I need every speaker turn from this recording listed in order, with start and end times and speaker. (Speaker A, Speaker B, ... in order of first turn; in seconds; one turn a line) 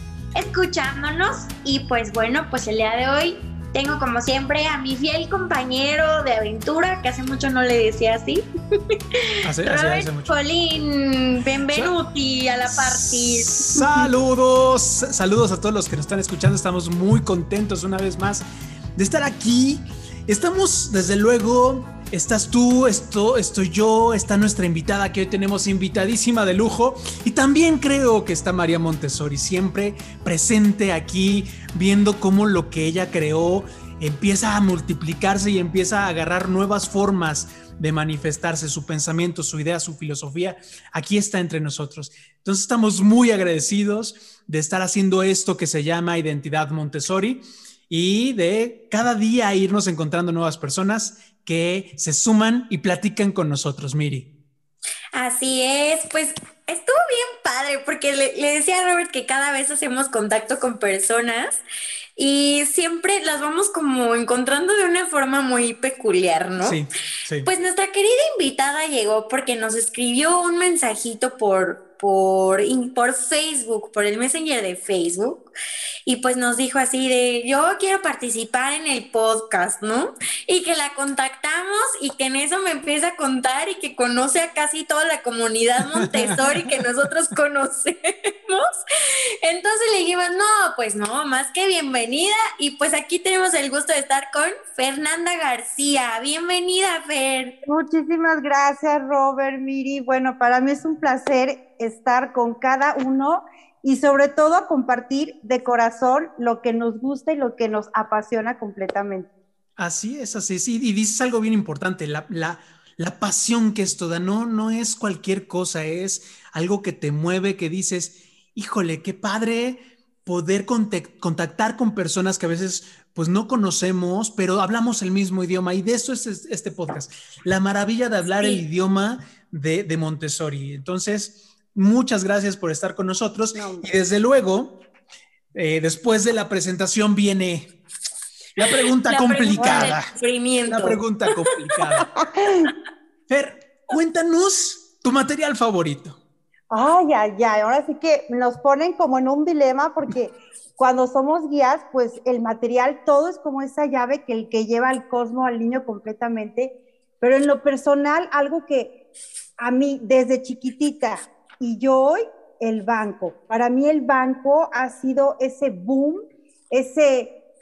Speaker A: 0.3-13.6
Speaker B: 9.4-10.3
Speaker B: 12.7-18.4
Speaker B: 18.9-54.3
Speaker A: 55.1-61.6
Speaker A: 62.2-66.8
Speaker B: 66.6-67.5
Speaker A: 67.4-75.5
Speaker A: 76.0-88.7
Speaker B: 86.0-86.4
Speaker A: 89.4-97.5
Speaker C: 97.6-109.3
Speaker B: 109.8-134.7
Speaker A: 128.4-128.6
Speaker C: 133.5-133.9
Speaker B: 135.5-137.7
Speaker B: 138.6-140.1
Speaker A: 139.1-141.0
Speaker C: 139.6-139.9
Speaker B: 140.7-142.1
Speaker C: 142.2-142.7
Speaker B: 143.3-146.2
Speaker C: 146.7-158.9
Speaker C: 159.6-167.3